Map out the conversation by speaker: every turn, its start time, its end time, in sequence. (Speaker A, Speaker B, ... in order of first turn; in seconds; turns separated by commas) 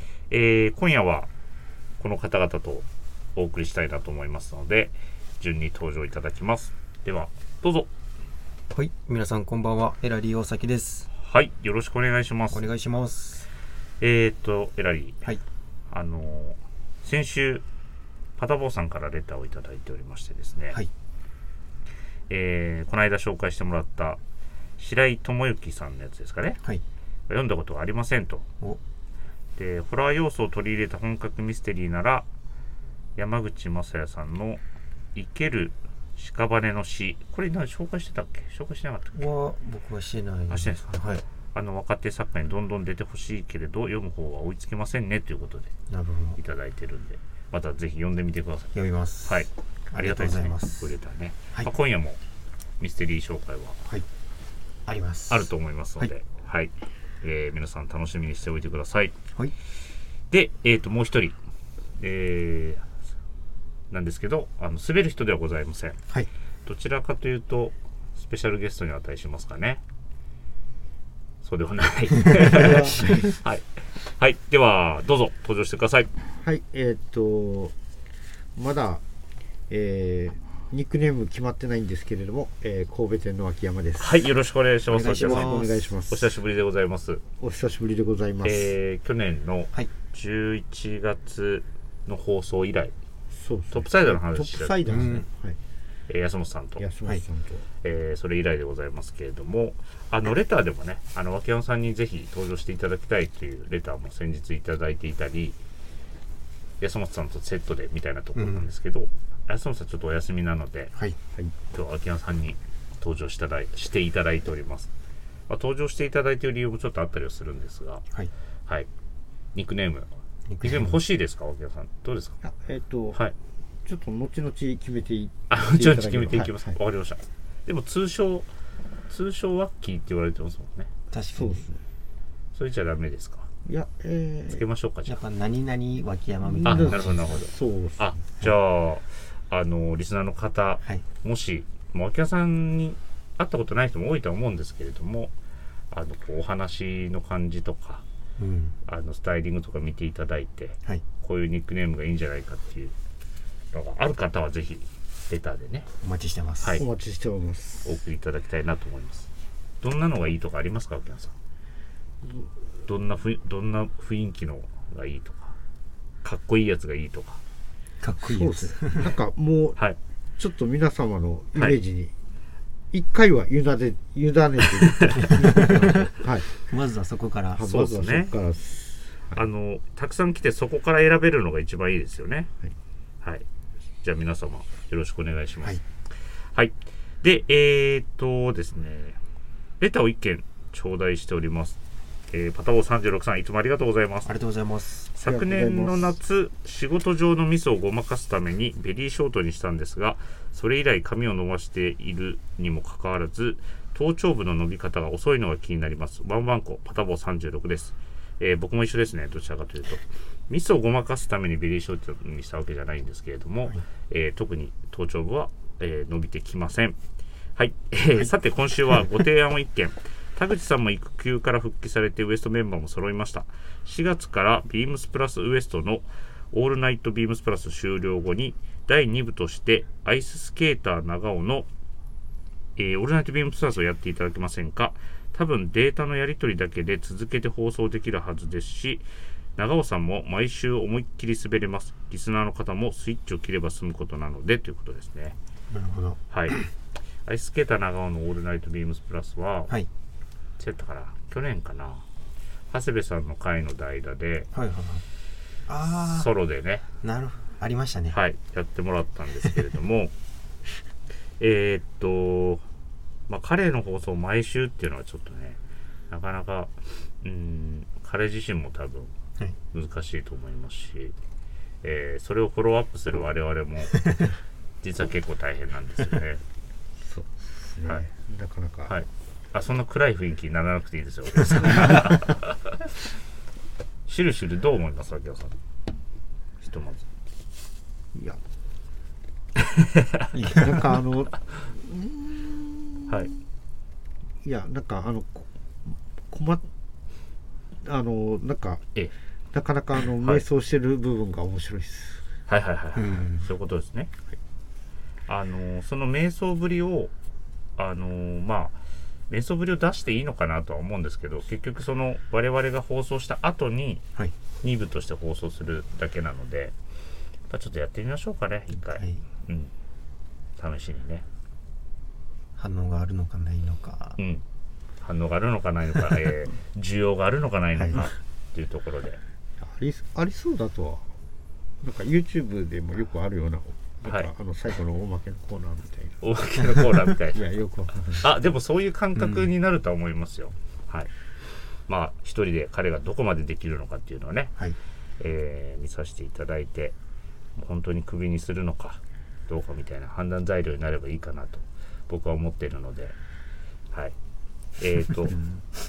Speaker A: 0.3-1.3, Speaker A: 2.0-7.9, Speaker B: 8.7-11.1, Speaker A: 11.2-12.7, Speaker B: 12.5-13.5, Speaker A: 14.0-15.3, Speaker A: 15.9-17.6, Speaker A: 18.4-20.8, Speaker A: 22.3-24.2, Speaker A: 24.8-26.6, Speaker A: 27.3-28.5, Speaker A: 29.6-32.3, Speaker A: 33.2-34.6, Speaker A: 35.1-39.2, Speaker B: 39.1-41.2, Speaker A: 40.5-45.7, Speaker B: 45.9-46.4, Speaker A: 46.4-48.7, Speaker B: 48.7-51.0, Speaker A: 49.2-52.2, Speaker A: 52.8-53.8, Speaker B: 54.9-56.1, Speaker A: 55.3-59.2, Speaker A: 60.3-61.4, Speaker A: 62.0-62.9, Speaker A: 63.9-66.0, Speaker A: 66.7-69.8, Speaker A: 71.4-76.1, Speaker C: 72.4-73.4, Speaker C: 76.4-77.7, Speaker C: 78.6-79.0, Speaker C: 79.7-84.2, Speaker A: 84.0-87.2, Speaker B: 84.9-85.8, Speaker C: 85.0-86.3, Speaker C: 87.4-88.7, Speaker A: 88.4-92.9, Speaker C: 93.3-95.6, Speaker A: 93.7-94.8, Speaker B: 94.9-95.3, Speaker A: 96.1-96.9, Speaker C: 96.8-97.7, Speaker A: 97.8-105.6, Speaker A: 106.8-110.9, Speaker B: 108.4-108.7, Speaker A: 111.7-114.9, Speaker A: 115.5-118.0, Speaker A: 119.5-120.1, Speaker B: 120.5-121.0, Speaker A: 120.6-122.4, Speaker C: 122.4-123.2, Speaker C: 123.8-126.8, Speaker A: 125.5-128.5, Speaker A: 129.1-130.9, Speaker B: 131.1-131.7, Speaker C: 131.3-131.8, Speaker A: 132.6-133.5, Speaker C: 133.7-134.7, Speaker A: 134.5-135.2, Speaker B: 135.1-137.4, Speaker C: 136.5-138.4, Speaker A: 136.7-145.3, Speaker A: 145.9-148.0, Speaker B: 148.4-148.8, Speaker A: 148.8-152.9, Speaker A: 153.7-155.9, Speaker B: 156.0-156.8, Speaker A: 156.6-156.9, Speaker C: 156.8-157.9, Speaker A: 157.8-159.3, Speaker A: 159.8-161.4, Speaker A: 162.9-165.6, Speaker A: 166.2-167.4, Speaker B: 168.0-169.1, Speaker C: 168.2-169.8, Speaker C: 170.4-172.1, Speaker C: 172.9-176.5, Speaker A: 174.8-175.4, Speaker B: 175.2-177.7, Speaker C: 177.6-179.4, Speaker A: 177.6-178.4, Speaker A: 179.3-182.5, Speaker A: 184.0-185.8, Speaker A: 186.4-189.2, Speaker A: 189.8-191.8, Speaker A: 192.3-194.3, Speaker B: 194.2-195.1, Speaker A: 195.2-217.0, Speaker C: 195.2-196.1, Speaker A: 217.6-231.7, Speaker A: 232.8-239.1, Speaker A: 239.6-245.4, Speaker B: 245.7-246.7, Speaker A: 246.3-246.6, Speaker A: 247.3-249.7, Speaker A: 250.6-252.1, Speaker A: 252.7-254.5, Speaker B: 254.5-255.1, Speaker B: 255.7-256.3, Speaker A: 255.8-256.9, Speaker B: 257.0-258.2, Speaker A: 258.1-260.1, Speaker A: 261.4-262.6, Speaker A: 263.3-265.6, Speaker A: 266.1-269.1, Speaker A: 269.7-271.1, Speaker A: 271.8-274.3, Speaker A: 274.8-276.4, Speaker C: 277.0-278.9, Speaker A: 278.9-282.9, Speaker A: 284.1-285.6, Speaker A: 286.6-287.1, Speaker C: 288.1-288.4, Speaker A: 289.7-290.4, Speaker B: 290.3-291.0, Speaker C: 290.5-293.1, Speaker A: 293.1-293.3, Speaker C: 294.4-296.6, Speaker C: 297.8-298.9, Speaker C: 299.5-302.2, Speaker A: 302.5-304.1, Speaker B: 302.9-303.5, Speaker A: 305.3-307.1, Speaker A: 307.8-314.1, Speaker A: 314.6-316.8, Speaker A: 317.5-319.7, Speaker B: 318.9-319.2, Speaker A: 320.6-321.3, Speaker B: 322.6-324.2, Speaker A: 324.2-324.4, Speaker A: 325.0-329.2, Speaker C: 329.6-331.1, Speaker C: 331.8-336.2, Speaker A: 336.2-337.4, Speaker C: 337.3-338.3, Speaker A: 338.2-341.1, Speaker B: 339.2-339.5, Speaker A: 341.9-344.6, Speaker A: 345.2-347.0, Speaker A: 347.6-353.2, Speaker A: 354.8-355.4